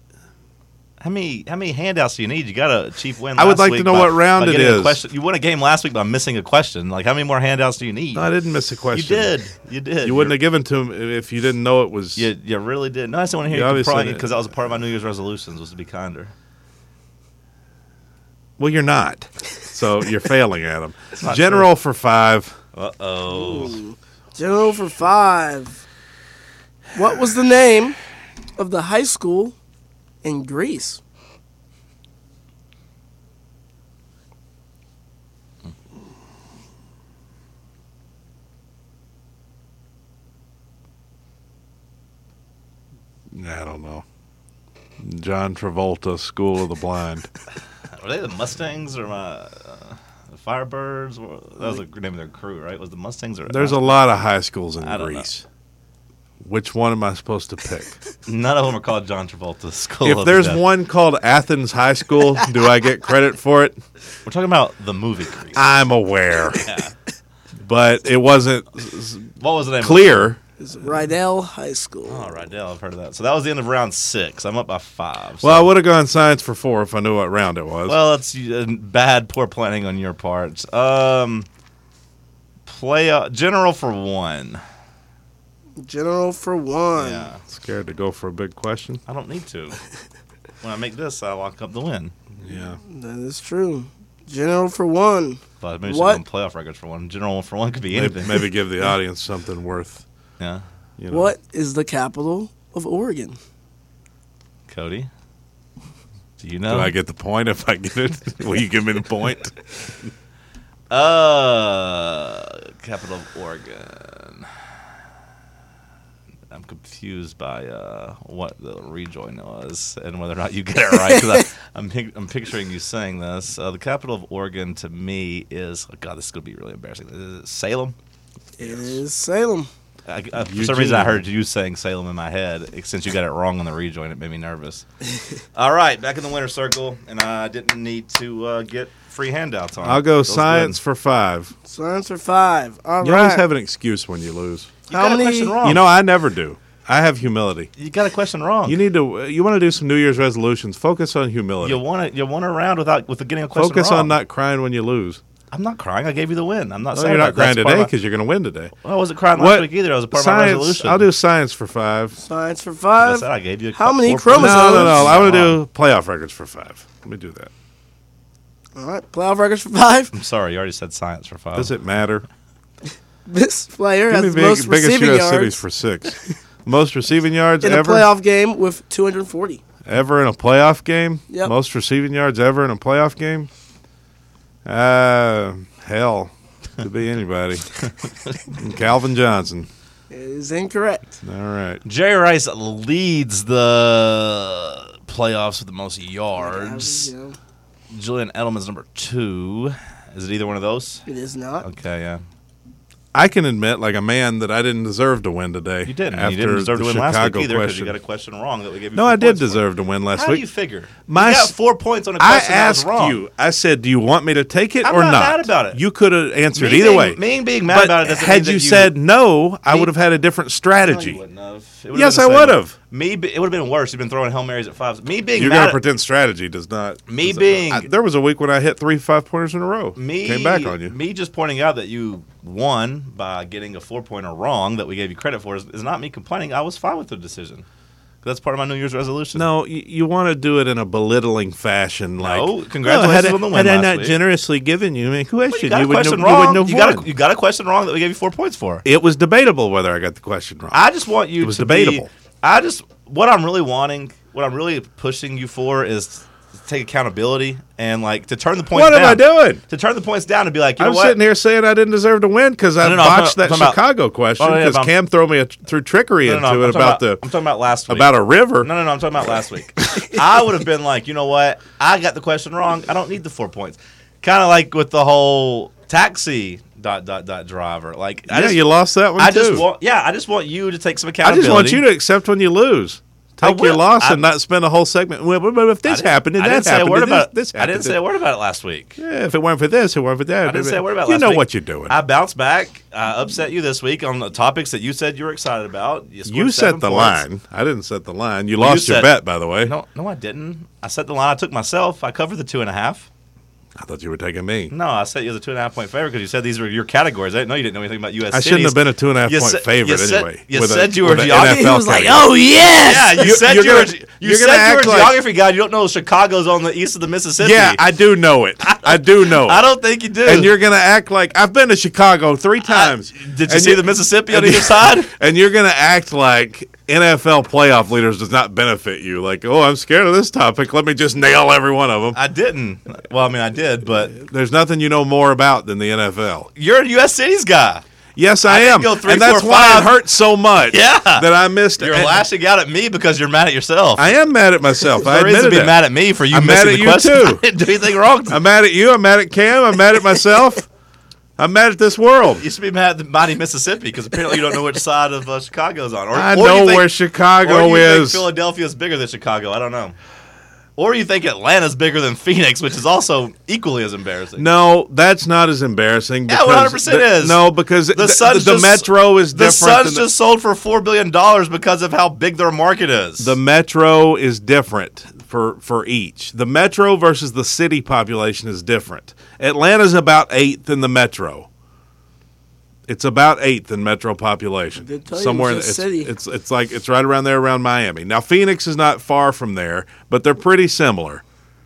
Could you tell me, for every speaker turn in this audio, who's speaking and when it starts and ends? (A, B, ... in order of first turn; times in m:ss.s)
0:01.0-0:08.3 A
0:03.4-0:05.0 B
0:08.2-0:09.4 B
0:08.9-0:10.4 A
0:10.0-0:12.3 B
0:12.2-0:16.3 A
0:13.5-0:14.4 B
0:18.6-0:22.6 B
0:21.2-0:21.7 A
0:22.8-0:23.8 A
0:23.3-0:25.8 C
0:27.0-0:28.0 C
0:28.6-0:29.6 C
0:30.2-0:31.0 C
0:43.3-0:44.0 B
0:45.0-0:47.3 B
0:48.0-0:54.0 A
0:53.5-0:55.4 B
0:54.8-0:55.3 A
0:56.4-0:58.0 B
0:58.3-1:00.6 A
1:00.0-1:03.8 B
1:04.2-1:05.6 A
1:05.6-1:06.7 B
1:06.6-1:06.9 A
1:07.6-1:09.3 B
1:09.4-1:10.3 A
1:09.8-1:10.4 B
1:10.6-1:12.4 C
1:12.1-1:15.7 A
1:15.4-1:18.0 B
1:17.9-1:21.5 A
1:22.7-1:24.6 A
1:25.8-1:27.3 C
1:27.0-1:27.4 A
1:27.5-1:29.0 B
1:29.1-1:29.8 A
1:30.6-1:32.1 A
1:32.4-1:32.8 B
1:32.8-1:36.2 C
1:35.6-1:38.5 A
1:37.9-1:40.0 B
1:40.4-1:40.6 A
1:41.0-1:41.3 B
1:41.1-1:43.4 C
1:44.7-1:45.1 A
1:46.4-1:46.9 A
1:46.7-1:49.6 B
1:50.9-1:54.5 A
1:56.5-2:08.0 A
2:08.6-2:09.7 C
2:08.6-2:09.0 A
2:10.1-2:14.8 A
2:10.4-2:11.2 B
2:15.6-2:20.8 A
2:19.8-2:21.5 B
2:21.7-2:23.4 C
2:23.0-2:24.8 B
2:24.9-2:25.8 A
2:24.9-2:25.6 C
2:25.6-2:27.7 B
2:27.8-2:28.8 A
2:28.6-2:31.8 B
2:31.6-2:34.2 A
2:33.6-2:35.2 B
2:35.5-2:37.9 A
2:36.9-2:38.7 B
2:38.8-2:41.1 A
2:39.3-2:42.2 B
2:42.2-2:45.2 C
2:43.0-2:45.6 A
2:44.3-2:47.5 B
2:48.8-2:50.1 C
2:50.1-2:51.7 A
2:51.6-2:52.3 B
2:53.3-2:55.6 C
2:54.1-2:58.1 B
2:57.6-2:59.6 C
2:59.9-3:03.5 B
3:04.6-3:07.6 B
3:07.8-3:08.4 A
3:08.6-3:09.7 B
3:10.1-3:11.2 C
3:11.2-3:11.8 B
3:11.8-3:17.1 A
3:16.4-3:17.4 C
3:17.9-3:21.0 A
3:21.1-3:21.7 C
3:21.6-3:22.2 A
3:23.1-3:28.0 B
3:25.8-3:33.2 A
3:29.0-3:30.4 B
3:31.1-3:31.5 B
3:32.2-3:41.2 B
3:34.8-3:35.8 A
3:36.5-3:39.0 A
3:39.7-3:39.9 A
3:40.8-3:45.8 A
3:41.9-3:42.8 B
3:45.4-3:51.0 B
3:47.1-3:47.9 A
3:50.0-3:57.6 A
3:58.2-3:59.5 A
3:59.4-4:07.1 B
4:02.2-4:04.2 A
4:05.5-4:08.8 A
4:08.8-4:10.8 B
4:10.7-4:21.2 A
4:11.4-4:12.1 B
4:18.7-4:19.6 B
4:20.8-4:27.2 B
4:22.8-4:23.8 A
4:24.4-4:24.9 A
4:26.2-4:38.6 A
4:27.9-4:28.7 B
4:38.3-4:39.7 B
4:39.2-4:41.9 A
4:41.2-4:48.0 B
4:43.4-4:44.2 A
4:45.9-4:49.0 A
4:49.0-4:52.0 B
4:50.4-4:57.3 A
4:56.3-4:59.7 B
4:58.6-5:03.1 A
5:03.8-5:04.7 B
5:04.7-5:11.9 A
5:08.3-5:15.2 B
5:11.3-5:13.3 C
5:12.8-5:17.8 A
5:17.4-5:19.6 B
5:18.6-5:20.5 A
5:20.2-5:32.2 B
5:22.6-5:25.1 A
5:32.1-5:34.2 A
5:34.1-5:36.5 B
5:36.6-5:37.8 A
5:38.2-5:42.2 B
5:38.4-5:40.0 A
5:40.7-5:44.1 A
5:44.0-5:47.4 B
5:45.0-5:48.4 A
5:48.3-5:50.7 B
5:51.4-5:52.4 B
5:52.4-6:00.0 A
5:56.1-5:58.3 B
6:00.8-6:04.5 A
6:04.4-6:10.1 B
6:06.3-6:13.4 A
6:13.2-6:21.5 B
6:22.9-6:31.2 B
6:24.8-6:26.1 C